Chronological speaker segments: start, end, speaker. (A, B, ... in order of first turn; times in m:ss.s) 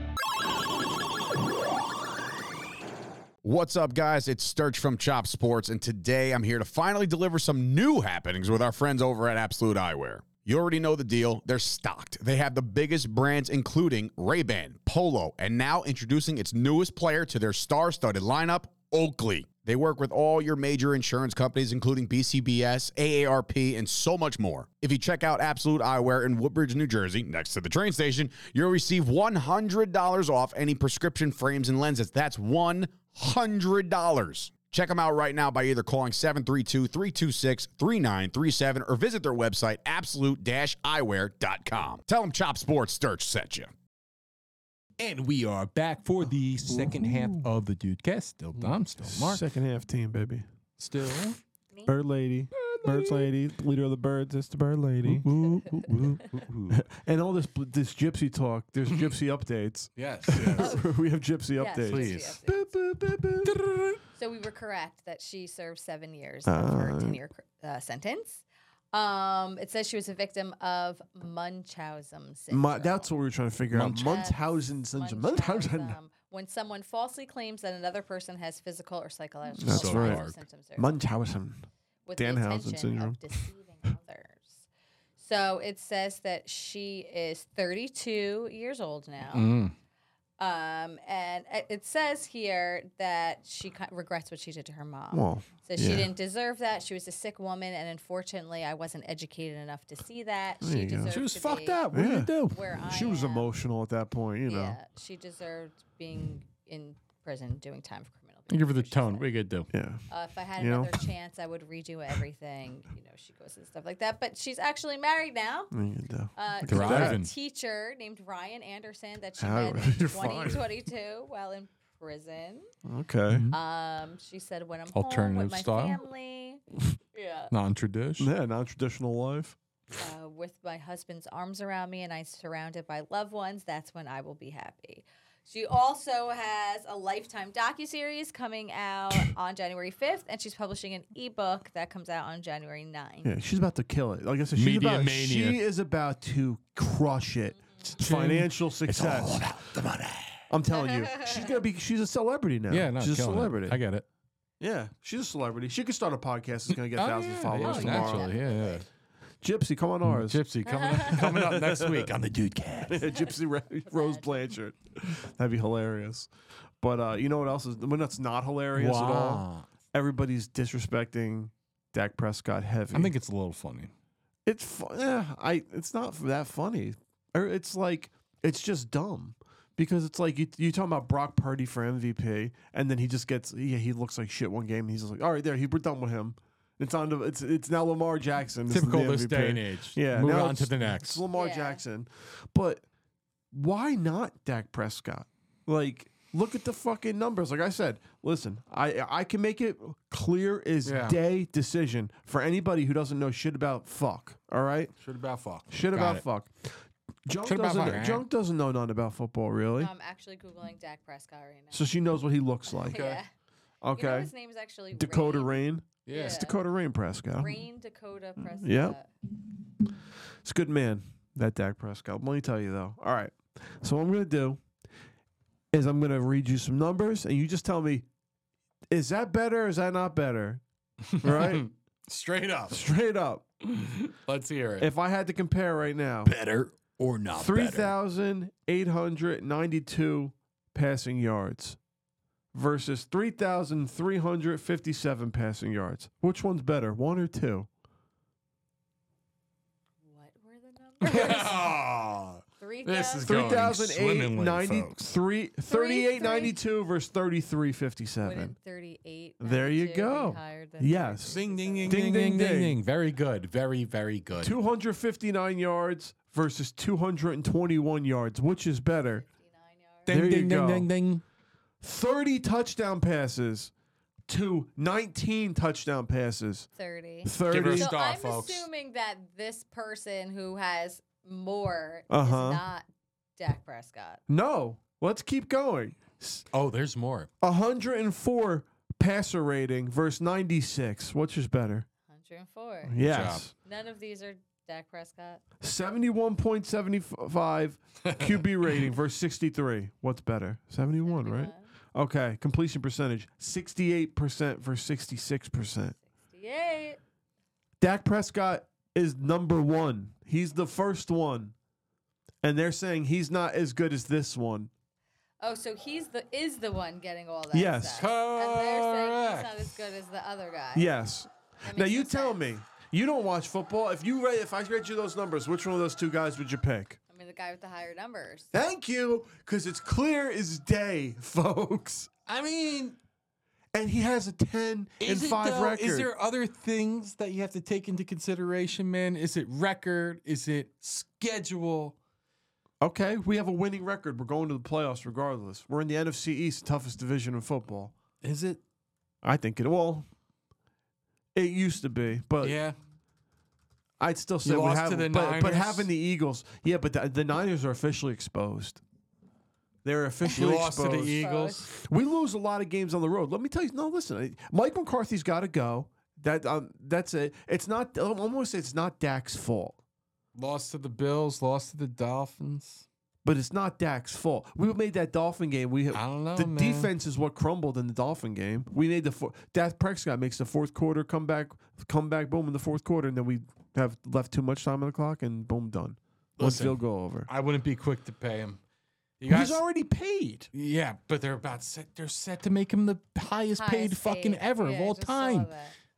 0:03.4-0:43.7 A
0:45.0-0:49.4 B
0:46.7-0:47.4 C
0:48.6-0:50.4 C
0:50.8-0:51.4 B
0:51.9-1:03.8 C
0:52.6-0:53.3 B
0:55.0-0:56.8 B
1:00.0-1:00.8 B
1:00.6-1:00.8 D
1:01.6-1:02.7 D
1:01.8-1:02.4 B
1:03.5-1:03.8 B
1:04.2-1:13.1 D
1:06.5-1:07.2 C
1:12.5-1:16.0 C
1:13.7-1:14.2 B
1:14.0-1:21.0 D
1:19.6-1:20.2 C
1:19.6-1:20.4 B
1:20.8-1:23.2 C
1:22.1-1:24.7 D
1:25.2-1:29.5 D
1:29.3-1:29.7 B
1:30.4-1:41.9 D
1:35.1-1:36.1 C
1:40.6-1:41.2 C
1:41.1-1:42.6 B
1:41.9-1:44.8 C
1:42.5-1:43.5 D
1:44.5-1:49.3 D
1:48.5-1:49.7 B
1:49.7-1:50.0 C
1:50.1-1:55.7 D
1:50.6-1:51.0 C
1:55.7-1:57.2 C
1:56.4-2:02.7 D
1:56.7-1:57.3 B
1:59.4-2:00.6 C
2:02.8-2:03.5 C
2:03.3-2:03.6 B
2:03.5-2:06.6 D
2:04.9-2:06.0 B
2:07.2-2:07.5 D
2:07.5-2:08.3 B
2:08.2-2:09.6 C
2:10.0-2:23.3 D
2:23.2-2:29.4 C
2:24.6-2:25.6 B
2:28.0-2:30.4 B
2:30.5-2:33.8 C
2:30.7-2:31.5 D
2:32.7-2:34.0 B
2:34.6-2:38.3 C
2:36.9-2:38.8 B
2:37.6-2:38.8 D
2:39.4-2:42.1 C
2:40.0-2:43.1 B
2:40.7-2:41.1 D
2:42.9-2:46.3 C
2:43.9-2:44.5 D
2:46.8-2:53.1 C
2:48.8-2:49.7 B
2:52.9-2:53.9 B
2:54.5-3:12.8 C
3:08.7-3:11.2 B
3:11.3-3:11.8 D
3:13.5-3:24.9 C
3:20.8-3:21.2 B
3:25.0-3:26.2 B
3:25.7-3:26.7 C
3:27.3-3:29.9 C
3:27.4-3:28.3 B
3:29.8-3:31.9 D
3:31.7-3:33.1 C
3:32.7-3:33.3 D
3:32.9-3:33.2 B
3:33.8-3:34.3 C
3:34.0-3:36.6 D
3:34.9-3:37.6 C
3:36.1-3:36.4 B
3:37.4-3:39.1 D
3:38.4-3:39.0 C
3:40.4-3:44.6 C
3:45.7-3:48.1 C
3:48.9-3:50.6 C
3:51.0-3:52.8 B
3:51.2-3:51.7 C
3:52.7-3:53.5 C
3:53.7-3:54.9 B
3:54.8-3:56.3 C
3:56.3-3:58.0 B
3:57.3-4:01.8 C
4:02.5-4:07.7 C
4:10.0-4:11.8 D
4:11.0-4:15.1 B
4:12.6-4:13.7 D
4:13.2-4:18.6 C
4:15.7-4:16.6 D
4:18.2-4:22.0 D
4:19.4-4:22.8 C
4:21.3-4:24.6 B
4:24.4-4:29.2 C
4:29.1-4:30.1 D
4:30.1-4:31.2 B
4:30.1-4:30.9 C
4:31.8-4:33.7 C
4:34.3-4:36.7 C
4:36.8-4:42.9 D
4:37.2-4:37.9 C
4:37.5-4:38.7 B
4:42.1-4:42.6 C
4:43.4-4:44.2 D
4:44.3-4:46.5 C
4:46.5-4:47.3 B
4:47.4-4:51.9 C
4:52.1-4:53.0 D
4:52.9-4:53.5 C
4:53.0-4:53.4 B
4:53.6-4:55.4 D
4:55.6-5:06.0 C
4:58.0-4:58.4 B
5:01.0-5:01.7 D
5:06.1-5:07.0 D
5:07.8-5:11.5 C
5:12.4-5:14.7 C
5:15.4-5:20.9 D
5:17.5-5:18.1 C
5:18.0-5:19.7 B
5:20.8-5:27.0 C
5:21.6-5:22.4 D
5:27.1-5:28.5 D
5:28.5-5:32.1 C
5:32.3-5:33.0 B
5:33.7-5:36.1 C
5:35.0-5:42.0 B
5:42.8-5:47.9 C
5:48.2-5:48.6 B
5:49.2-5:50.1 C
5:51.4-5:52.6 C
5:52.4-5:52.8 B
5:54.0-5:58.8 C
5:54.4-5:55.9 B
5:59.8-6:09.8 C
6:00.3-6:01.7 B
6:01.2-6:01.7 D
6:10.4-6:12.8 B
6:13.2-6:27.3 C
6:15.9-6:16.9 B
6:26.4-6:28.6 B
6:29.2-6:29.6 B
6:29.3-6:30.5 C
6:30.5-6:35.5 B
6:33.6-6:35.7 D